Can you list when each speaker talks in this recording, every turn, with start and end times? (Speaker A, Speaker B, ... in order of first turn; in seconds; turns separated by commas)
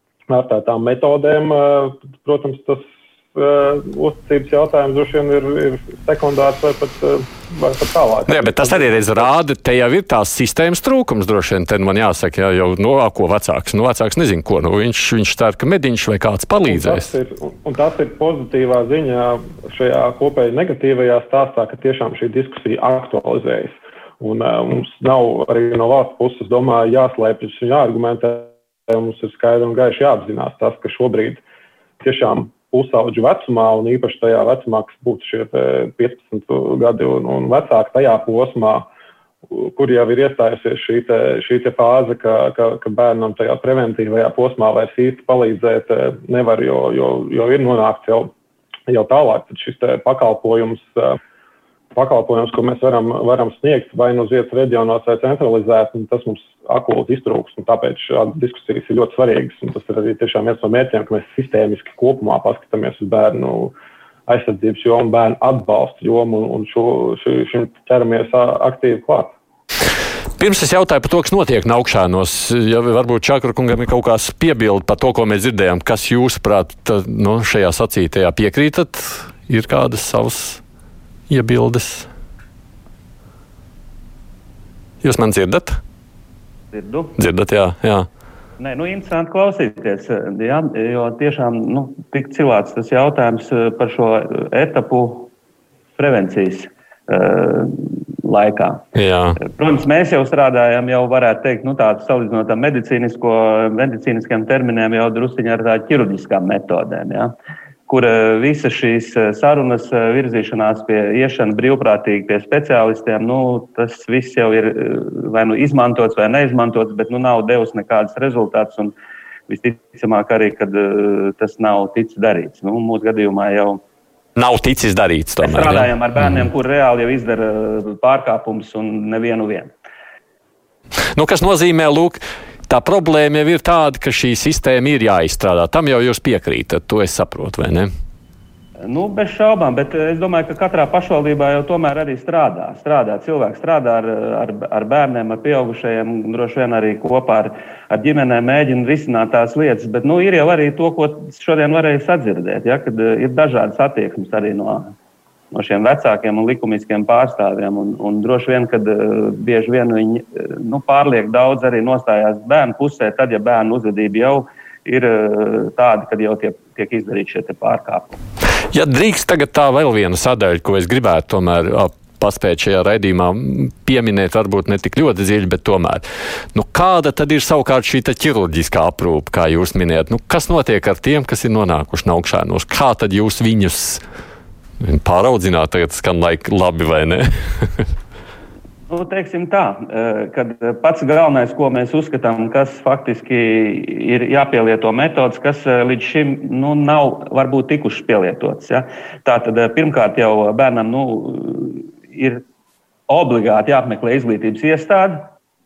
Speaker A: 0.3-9.3, Speaker B: 8.3-17.1, Speaker A: 16.7-31.4, Speaker A: 32.0-38.9, Speaker A: 39.5-48.3, Speaker A: 48.9-51.2, Speaker A: 52.0-63.7, Speaker A: 64.3-69.3, Speaker B: 70.4-80.6, Speaker B: 81.3-82.1, Speaker B: 85.0-85.8, Speaker C: 86.7-87.2, Speaker B: 87.2-88.1, Speaker C: 88.6-95.3, Speaker C: 96.0-98.8, Speaker B: 99.0-99.4, Speaker C: 99.4-107.3, Speaker C: 107.9-119.0, Speaker C: 119.5-123.8, Speaker B: 124.4-126.5, Speaker C: 125.4-129.7, Speaker B: 131.2-137.9, Speaker C: 138.8-154.9, Speaker C: 155.5-168.2, Speaker B: 168.7-184.0, Speaker B: 184.8-187.9, Speaker C: 188.9-202.4, Speaker C: 203.1-205.3